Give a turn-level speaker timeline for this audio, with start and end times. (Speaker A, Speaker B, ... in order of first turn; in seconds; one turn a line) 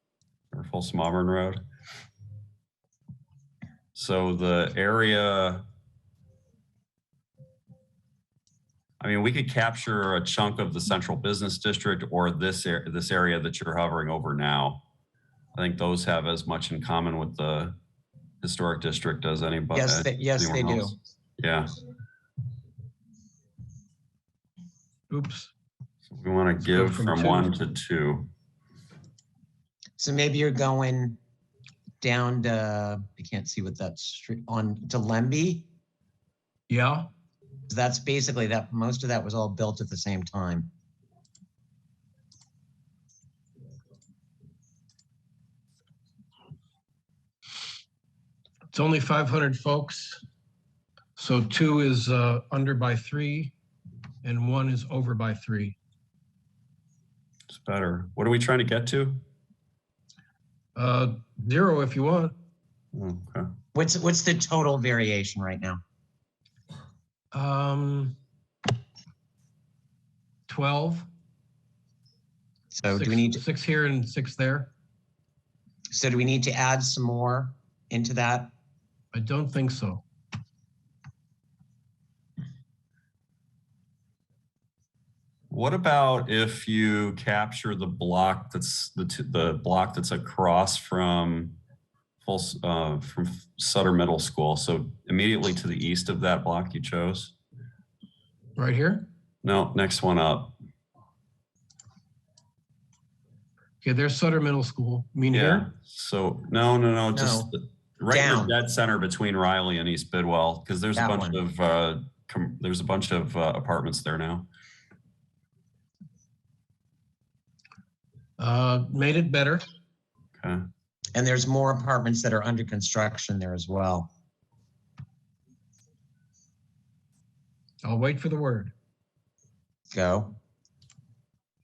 Speaker A: 0.5-1.6
Speaker A: 3.9-5.6
Speaker A: 9.0-14.8
Speaker A: 15.5-17.8
Speaker A: 18.4-21.8
Speaker B: 19.7-20.9
Speaker C: 25.1-25.5
Speaker A: 26.1-28.3
Speaker C: 26.6-27.6
Speaker B: 30.0-31.2
Speaker B: 32.0-35.6
Speaker C: 36.7-37.1
Speaker B: 37.7-40.7
Speaker C: 48.7-50.2
Speaker C: 51.1-53.5
Speaker C: 54.2-55.8
Speaker A: 57.5-59.2
Speaker C: 60.8-62.3
Speaker A: 62.9-63.5
Speaker B: 63.7-65.8
Speaker C: 67.3-68.2
Speaker C: 70.5-71.1
Speaker B: 72.7-73.4
Speaker C: 72.9-74.7
Speaker B: 75.9-78.5
Speaker C: 79.1-80.0
Speaker A: 85.5-91.5
Speaker A: 92.2-97.3
Speaker C: 98.5-99.0
Speaker A: 99.4-100.5
Speaker C: 103.8-105.7
Speaker A: 105.3-114.5
Speaker B: 107.1-107.5
Speaker B: 108.1-108.5
Speaker B: 111.0-111.4
Speaker C: 118.4-119.6
Speaker A: 120.4-120.6
Speaker B: 121.1-124.1
Speaker C: 127.8-128.7
Speaker B: 129.9-130.3